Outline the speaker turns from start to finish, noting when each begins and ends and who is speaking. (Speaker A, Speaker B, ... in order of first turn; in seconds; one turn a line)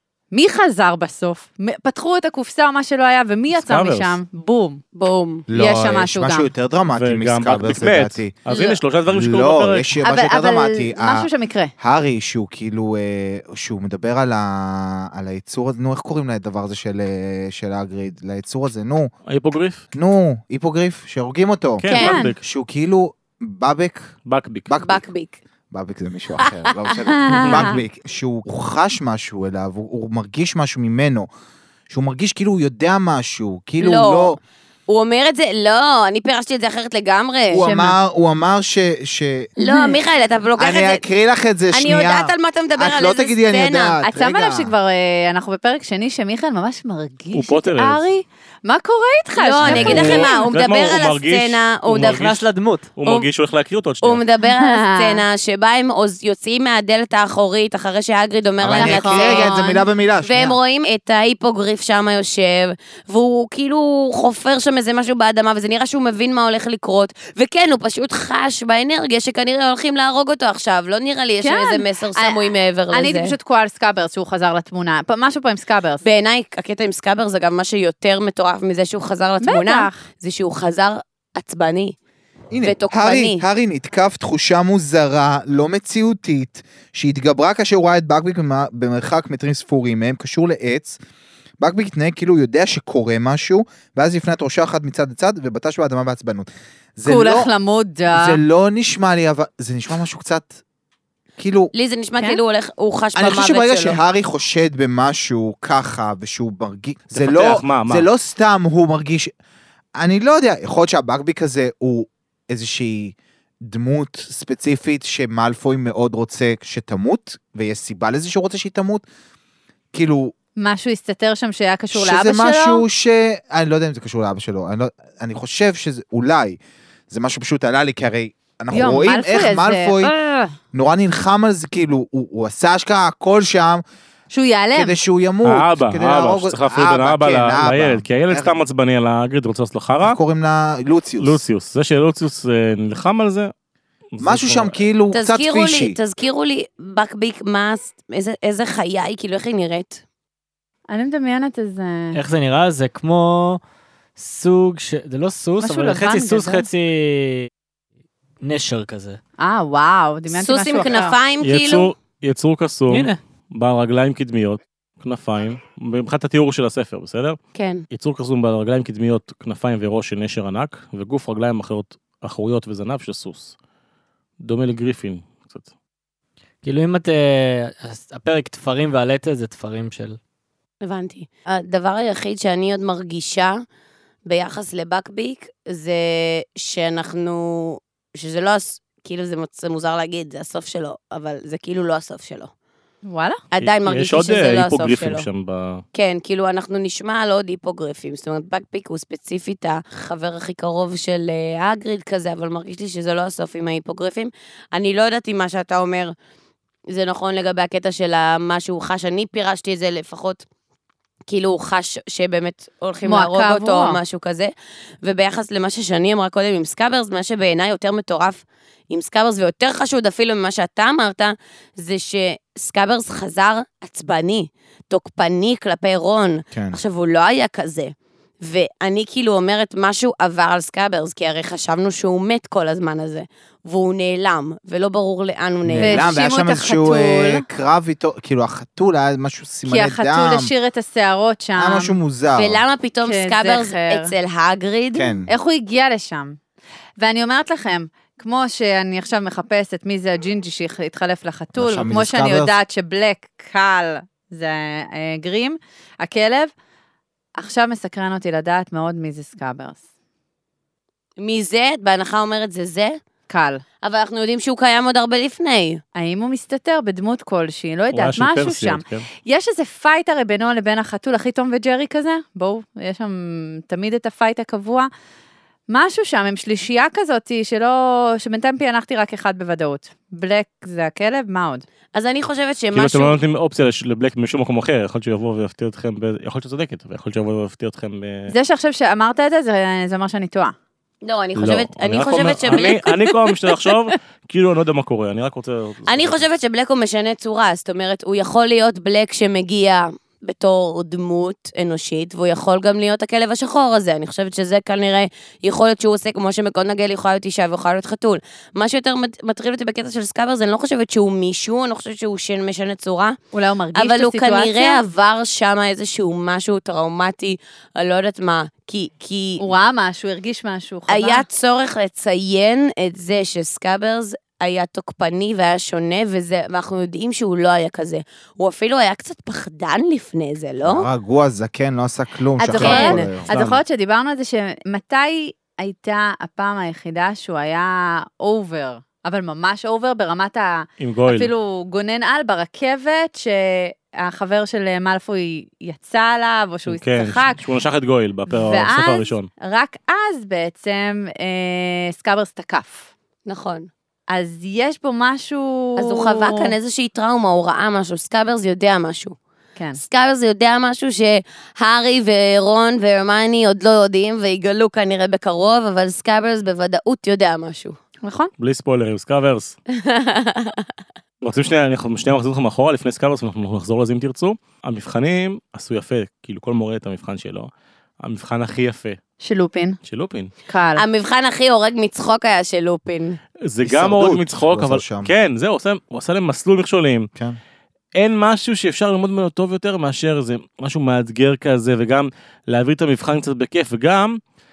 Speaker A: 0.3-4.8
Speaker B: 3.5-4.2
Speaker C: 4.9-5.4
Speaker D: 5.5-8.3
Speaker A: 5.5-6.5
Speaker B: 6.9-10.0
Speaker D: 9.1-19.1
Speaker A: 10.0-11.7
Speaker B: 19.3-19.8
Speaker D: 19.9-24.1
Speaker B: 21.8-22.4
Speaker C: 21.9-22.2
Speaker A: 21.9-22.3
Speaker B: 24.2-24.7
Speaker D: 24.7-25.0
Speaker C: 24.8-25.4
Speaker D: 25.7-31.3
Speaker C: 26.4-26.7
Speaker A: 27.1-27.8
Speaker B: 27.4-27.7
Speaker D: 31.9-34.4
Speaker C: 33.8-37.7
Speaker D: 37.5-39.5
Speaker A: 37.6-38.0
Speaker C: 39.6-41.0
Speaker A: 39.6-40.0
Speaker D: 40.6-44.7
Speaker C: 41.7-44.0
Speaker A: 44.0-50.4
Speaker B: 47.3-48.1
Speaker C: 49.3-52.2
Speaker D: 49.6-50.2
Speaker B: 49.6-54.2
Speaker E: 51.9-52.9
Speaker C: 54.0-59.6
Speaker A: 54.4-55.2
Speaker D: 58.6-60.6
Speaker A: 58.7-59.8
Speaker C: 60.2-73.3
Speaker A: 71.4-76.0
Speaker C: 76.0-81.9
Speaker A: 79.4-80.0
Speaker D: 82.5-91.0
Speaker C: 82.6-83.4
Speaker D: 91.6-97.5
Speaker A: 97.0-98.4
Speaker D: 98.1-100.5
Speaker D: 101.4-101.7
Speaker C: 101.7-104.0
Speaker D: 103.1-109.3
Speaker B: 107.1-108.1
Speaker D: 110.0-119.0
Speaker D: 119.9-120.3
Speaker A: 120.6-122.8
Speaker D: 121.9-126.6
Speaker D: 127.1-130.1
Speaker A: 128.7-130.5
Speaker D: 130.7-133.8
Speaker A: 134.3-135.0
Speaker D: 134.7-138.6
Speaker B: 135.4-140.2
Speaker D: 140.0-141.4
Speaker B: 141.2-143.5
Speaker B: 144.1-144.8
Speaker D: 144.2-146.0
Speaker C: 145.1-150.0
Speaker A: 150.9-152.2
Speaker E: 152.1-153.6
Speaker E: 154.2-157.5
Speaker A: 155.6-156.7
Speaker E: 158.4-159.2
Speaker A: 159.4-161.2
Speaker C: 160.3-161.9
Speaker B: 161.4-167.4
Speaker E: 162.9-163.2
Speaker C: 167.5-167.8
Speaker B: 167.9-173.6
Speaker B: 174.4-175.7
Speaker E: 176.6-180.2
Speaker C: 180.8-183.6
Speaker C: 184.3-192.5
Speaker A: 193.1-193.4
Speaker C: 193.5-195.2
Speaker B: 193.6-195.8
Speaker C: 195.9-206.1
Speaker C: 206.9-210.4
Speaker C: 211.3-214.5
Speaker A: 213.0-214.0
Speaker C: 215.0-236.1
Speaker D: 226.5-226.8
Speaker D: 235.6-240.5
Speaker A: 235.8-237.4
Speaker A: 239.7-241.9
Speaker D: 241.6-242.6
Speaker C: 242.3-245.1
Speaker A: 243.0-244.1
Speaker D: 244.9-245.3
Speaker A: 245.3-246.4
Speaker A: 247.0-256.5
Speaker D: 251.6-252.6
Speaker A: 257.4-259.8
Speaker C: 261.2-263.0
Speaker A: 263.3-263.6
Speaker C: 263.8-265.8
Speaker A: 265.9-274.9
Speaker B: 267.9-269.1
Speaker A: 275.7-281.6
Speaker C: 281.9-283.2
Speaker B: 282.7-288.3
Speaker A: 288.3-290.5
Speaker C: 291.0-292.9
Speaker B: 291.3-296.2
Speaker C: 295.9-313.2
Speaker A: 313.3-314.8
Speaker C: 313.7-319.4
Speaker A: 319.4-321.2
Speaker C: 320.9-330.9
Speaker D: 330.6-333.6
Speaker A: 332.4-347.4
Speaker C: 332.5-333.2
Speaker B: 340.8-341.3
Speaker B: 346.7-349.3
Speaker A: 348.3-352.9
Speaker C: 353.2-353.7
Speaker A: 354.1-356.5
Speaker C: 355.8-359.2
Speaker C: 359.8-367.8
Speaker A: 368.0-368.3
Speaker B: 368.4-369.6
Speaker C: 369.7-370.7
Speaker B: 371.2-377.5
Speaker B: 378.0-379.0
Speaker A: 379.2-379.8
Speaker B: 379.8-380.3
Speaker A: 380.5-380.8
Speaker C: 380.7-383.2
Speaker B: 383.4-387.1
Speaker D: 383.6-385.1
Speaker B: 387.9-394.2